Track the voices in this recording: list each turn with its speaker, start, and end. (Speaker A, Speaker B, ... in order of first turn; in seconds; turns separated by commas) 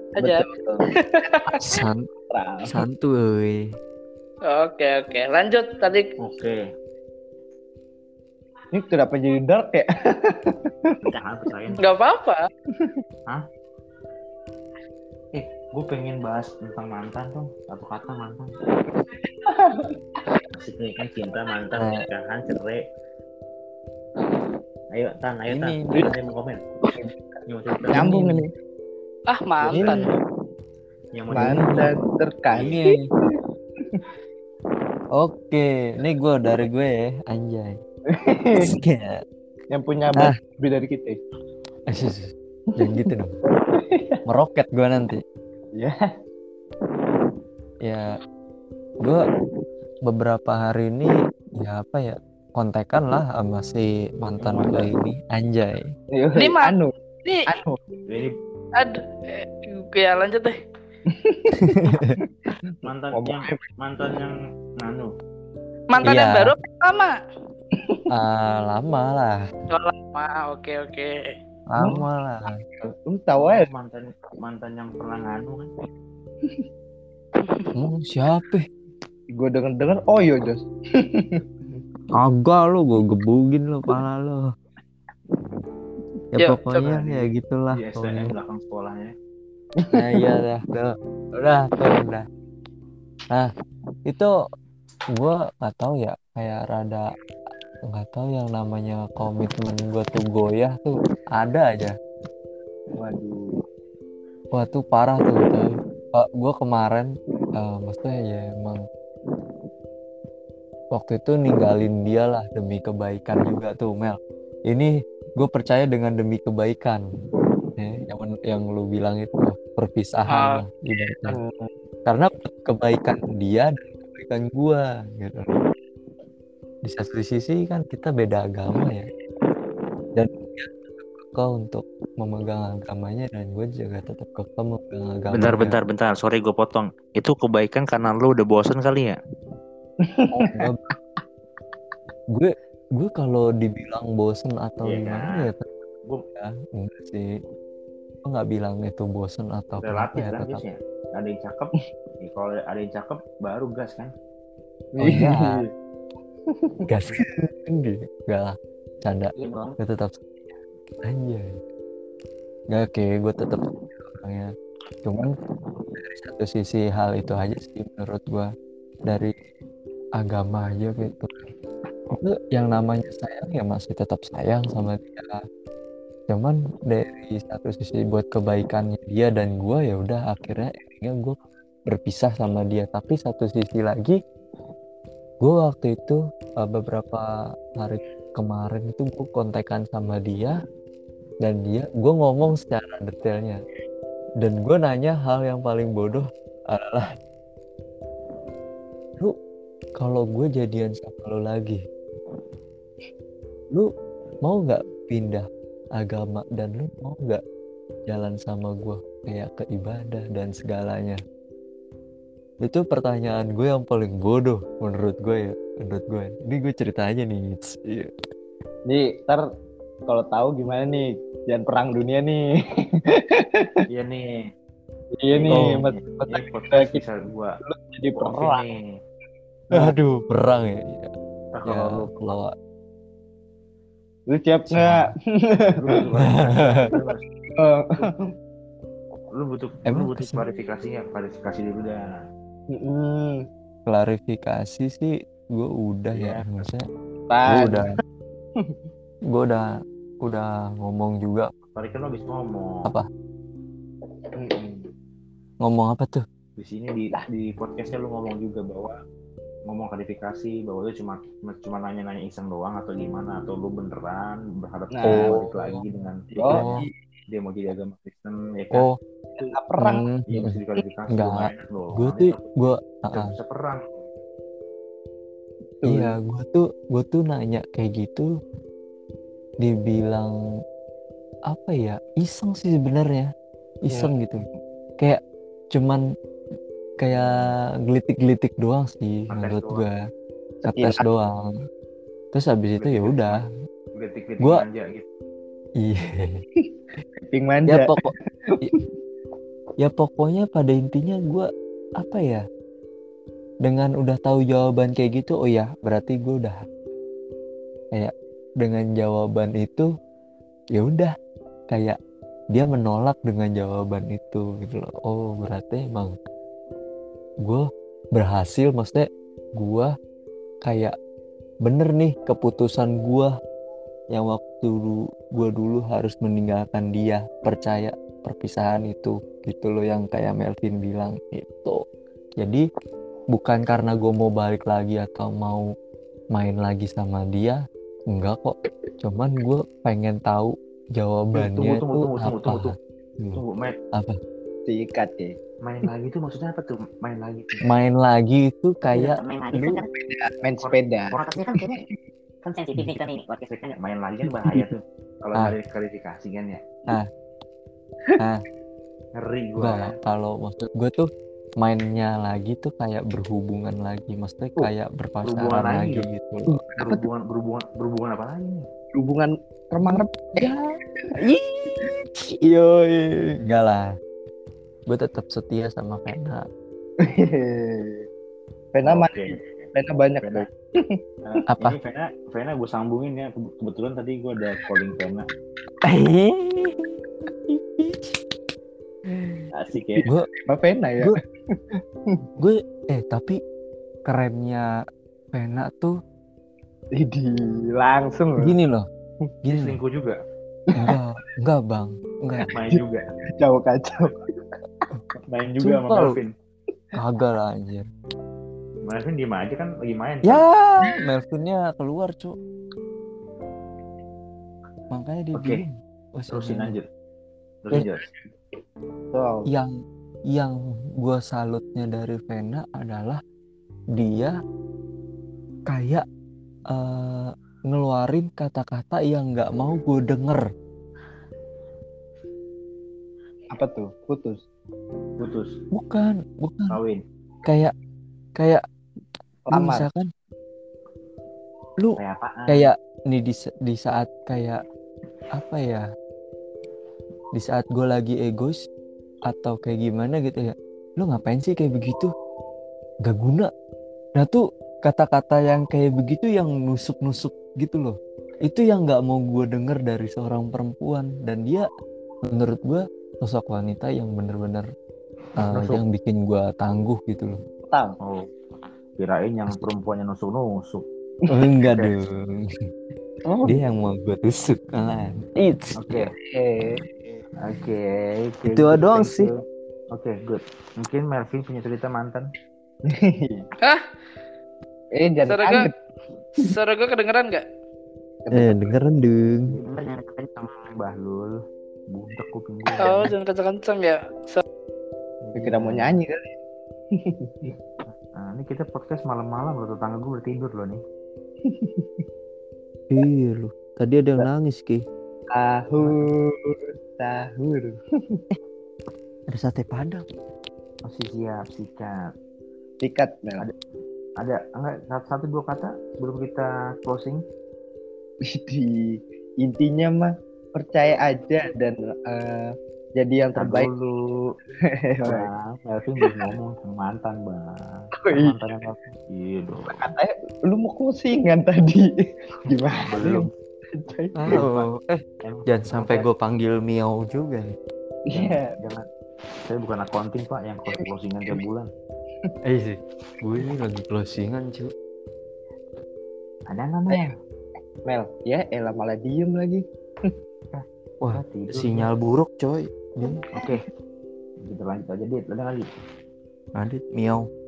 Speaker A: 0.2-0.4, Speaker B: 0.2-0.9, Speaker A: 1.0-1.6, Speaker C: 1.6-2.1, Speaker B: 2.3-2.7, Speaker C: 2.6-3.6, Speaker A: 4.5-6.0, Speaker D: 6.2-6.6, Speaker B: 8.7-10.9, Speaker D: 11.0-11.8, Speaker A: 11.8-12.4, Speaker D: 15.3-18.5, Speaker B: 19.5-19.9, Speaker D: 20.5-22.8, Speaker C: 21.8-22.1, Speaker D: 24.9-26.6, Speaker C: 25.5-26.3, Speaker B: 26.9-28.5, Speaker D: 27.5-28.3, Speaker C: 27.9-28.4, Speaker A: 29.3-30.0, Speaker D: 29.7-30.1, Speaker B: 29.7-30.1, Speaker D: 31.1-31.9, Speaker B: 31.3-32.9, Speaker C: 31.3-31.9, Speaker C: 32.6-33.0, Speaker C: 35.1-37.8, Speaker B: 38.1-38.7, Speaker C: 38.6-39.2, Speaker B: 39.7-41.2, Speaker C: 41.9-43.4, Speaker B: 42.8-43.1, Speaker B: 43.7-44.2, Speaker C: 44.3-45.2, Speaker C: 49.0-49.3, Speaker C: 50.1-55.8, Speaker D: 54.4-54.9, Speaker B: 56.1-56.9, Speaker A: 56.4-56.7, Speaker B: 57.5-57.8, Speaker D: 58.1-58.4, Speaker A: 58.8-60.6, Speaker B: 61.1-63.6, Speaker C: 61.6-62.1, Speaker D: 62.8-65.1, Speaker A: 65.9-67.2, Speaker C: 66.0-66.5, Speaker B: 67.7-68.0, Speaker C: 68.1-69.4, Speaker A: 69.7-71.2, Speaker C: 71.7-72.5, Speaker B: 71.8-72.0, Speaker B: 72.8-73.7, Speaker D: 73.4-75.7, Speaker A: 77.5-77.7, Speaker C: 77.8-78.7, Speaker B: 79.3-81.8, Speaker C: 82.2-84.5, Speaker C: 86.4-88.3, Speaker A: 86.4-87.0, Speaker D: 87.7-89.1, Speaker B: 89.8-90.2, Speaker C: 89.9-92.2, Speaker C: 95.2-97.1, Speaker C: 97.9-102.0, Speaker B: 103.0-103.4, Speaker C: 104.5-108.8, Speaker C: 110.9-117.0, Speaker C: 117.8-121.4, Speaker A: 120.3-120.6, Speaker B: 121.3-121.7, Speaker C: 122.1-125.6, Speaker C: 126.8-129.1, Speaker C: 130.2-135.8, Speaker D: 135.3-139.2, Speaker B: 140.1-140.6, Speaker C: 140.3-140.9, Speaker C: 142.3-145.7, Speaker D: 144.8-145.5, Speaker C: 146.4-147.3, Speaker C: 148.3-150.6, Speaker D: 149.8-154.1, Speaker B: 154.9-155.7, Speaker C: 155.0-155.6, Speaker B: 156.5-156.8, Speaker C: 156.9-160.2, Speaker E: 159.4-159.7, Speaker C: 161.0-161.5, Speaker C: 162.7-164.5, Speaker C: 165.0-165.4, Speaker C: 166.0-168.5, Speaker C: 170.2-171.5, Speaker C: 172.2-175.4, Speaker C: 176.3-181.4, Speaker C: 181.9-184.2, Speaker C: 185.4-187.2, Speaker C: 187.8-190.6, Speaker C: 191.4-193.6, Speaker C: 194.4-197.1, Speaker C: 200.0-201.8, Speaker C: 204.4-205.5, Speaker C: 206.0-207.4, Speaker C: 208.1-211.2, Speaker C: 212.6-218.1, Speaker B: 218.9-219.4, Speaker B: 220.1-222.4, Speaker B: 223.1-223.8, Speaker D: 223.9-224.4, Speaker B: 225.2-227.0, Speaker D: 225.3-227.6, Speaker C: 225.5-225.8, Speaker B: 227.7-228.7, Speaker D: 228.2-228.9, Speaker C: 229.7-231.1, Speaker D: 231.5-232.1, Speaker C: 231.7-232.5, Speaker B: 234.3-236.0, Speaker C: 234.7-235.1, Speaker D: 235.8-237.3, Speaker C: 236.2-236.9, Speaker B: 237.6-238.1, Speaker D: 239.3-242.0, Speaker C: 239.9-240.4, Speaker B: 242.7-243.4, Speaker C: 243.9-246.8, Speaker D: 246.1-246.6, Speaker B: 247.3-248.0, Speaker C: 247.5-247.8, Speaker C: 249.3-249.7, Speaker C: 250.2-251.5, Speaker D: 251.8-252.9, Speaker B: 254.4-254.8, Speaker C: 255.6-256.2, Speaker D: 256.6-258.9, Speaker D: 259.7-266.7, Speaker B: 264.9-265.4, Speaker C: 265.1-265.9, Speaker B: 266.3-266.9, Speaker C: 266.5-266.9, Speaker D: 267.3-268.9, Speaker B: 269.4-270.1, Speaker C: 269.8-270.6, Speaker D: 270.3-274.1, Speaker C: 271.1-273.3, Speaker B: 275.8-276.2, Speaker C: 275.9-278.3, Speaker C: 279.6-280.3, Speaker C: 281.5-283.3, Speaker C: 283.8-284.4, Speaker B: 283.9-284.1, Speaker C: 285.7-286.0, Speaker C: 287.0-289.9, Speaker D: 287.1-287.5, Speaker D: 289.3-289.8, Speaker B: 290.6-291.0, Speaker C: 290.7-291.5, Speaker C: 292.3-293.5, Speaker D: 292.8-293.4, Speaker D: 293.9-295.1, Speaker C: 295.8-296.4, Speaker B: 297.3-298.8, Speaker C: 297.7-298.1, Speaker C: 299.8-301.5, Speaker C: 302.0-302.4, Speaker C: 303.6-306.6, Speaker C: 307.9-309.9, Speaker C: 310.8-311.1, Speaker C: 311.7-312.0, Speaker C: 312.5-316.2, Speaker C: 317.4-319.1, Speaker C: 319.6-319.9, Speaker C: 320.7-320.9, Speaker C: 321.6-323.3, Speaker C: 324.1-331.8, Speaker C: 333.3-335.7, Speaker C: 336.4-337.6, Speaker C: 338.1-343.4, Speaker D: 341.4-342.8, Speaker D: 343.4-343.8, Speaker B: 344.7-345.4, Speaker D: 345.6-347.7, Speaker C: 347.6-349.8, Speaker E: 348.9-349.9, Speaker B: 349.9-351.9, Speaker E: 351.1-351.8, Speaker E: 352.4-353.8, Speaker C: 352.8-353.0, Speaker D: 353.5-356.6, Speaker B: 354.3-354.7, Speaker D: 359.2-359.9, Speaker C: 359.6-361.1, Speaker C: 361.6-366.6, Speaker D: 365.2-366.1, Speaker B: 366.5-367.1, Speaker D: 366.8-368.6, Speaker B: 368.9-371.1, Speaker C: 369.9-370.6, Speaker C: 371.1-373.9, Speaker C: 374.9-376.4, Speaker B: 377.0-378.1, Speaker B: 378.7-381.4, Speaker D: 378.9-379.7, Speaker D: 381.2-385.3, Speaker C: 385.8-388.2, Speaker C: 389.1-389.4, Speaker D: 389.5-390.1, Speaker B: 389.9-392.3, Speaker C: 392.4-393.4, Speaker C: 394.1-394.6, Speaker C: 395.3-395.9, Speaker B: 397.0-398.5, Speaker C: 398.4-398.9, Speaker C: 399.4-399.8, Speaker D: 399.5-400.2, Speaker B: 400.7-401.0, Speaker C: 400.8-402.5, Speaker B: 402.4-402.8, Speaker D: 402.5-403.0, Speaker B: 403.4-404.6, Speaker D: 405.3-406.3, Speaker C: 405.6-406.2, Speaker C: 406.9-407.9, Speaker D: 408.8-410.4, Speaker C: 410.3-412.4, Speaker C: 414.9-416.7, Speaker D: 415.4-415.6, Speaker D: 416.3-416.9, Speaker D: 417.6-418.1, Speaker B: 419.1-419.5, Speaker C: 420.3-423.2, Speaker C: 423.9-424.3, Speaker C: 425.7-426.1, Speaker C: 426.7-430.4, Speaker B: 433.5-434.4, Speaker D: 435.2-435.6, Speaker C: 435.8-436.8, Speaker D: 436.7-437.0, Speaker C: 437.5-437.7, Speaker C: 438.4-438.6, Speaker B: 439.5-439.9, Speaker C: 439.5-440.1, Speaker C: 441.8-444.6, Speaker D: 442.0-442.7, Speaker C: 445.3-445.9, Speaker C: 447.4-448.6, Speaker C: 449.3-452.1, Speaker C: 453.1-453.5, Speaker C: 454.2-461.7, Speaker C: 462.3-464.7, Speaker C: 465.4-467.4, Speaker D: 465.5-465.8, Speaker B: 467.7-468.0, Speaker D: 468.0-468.3, Speaker D: 469.0-470.8, Speaker C: 471.3-472.5, Speaker B: 473.2-473.6, Speaker C: 473.4-476.1, Speaker D: 475.8-476.1, Speaker B: 476.3-477.2, Speaker D: 477.4-479.4, Speaker C: 478.4-479.3, Speaker D: 479.9-482.3, Speaker B: 482.9-483.5, Speaker B: 485.0-485.7, Speaker A: 485.3-485.7, Speaker A: 486.4-487.4, Speaker B: 488.3-488.8, Speaker C: 488.3-489.5, Speaker D: 489.5-491.3, Speaker E: 489.6-490.3, Speaker D: 491.9-493.1, Speaker A: 492.8-494.4, Speaker D: 495.2-495.9, Speaker B: 495.4-496.3, Speaker B: 496.9-497.5, Speaker D: 498.1-500.8, Speaker B: 501.4-502.1, Speaker C: 502.9-504.8, Speaker B: 505.3-508.2, Speaker C: 509.3-510.1, Speaker D: 510.9-512.0, Speaker B: 512.8-513.5, Speaker D: 514.2-517.2, Speaker B: 518.3-523.7, Speaker D: 523.4-524.0, Speaker B: 524.7-525.3, Speaker D: 525.0-529.8, Speaker B: 526.0-526.3, Speaker B: 528.0-528.4, Speaker B: 529.7-534.5, Speaker D: 532.8-533.3, Speaker C: 534.2-537.5, Speaker D: 534.3-534.7, Speaker D: 535.2-536.1, Speaker B: 538.1-538.5, Speaker D: 538.1-538.9, Speaker D: 539.5-541.7, Speaker C: 542.5-544.7, Speaker D: 546.5-547.2, Speaker B: 547.9-550.1, Speaker D: 550.5-551.9, Speaker C: 551.0-553.3, Speaker D: 553.3-553.6, Speaker D: 554.4-555.7, Speaker C: 556.6-557.3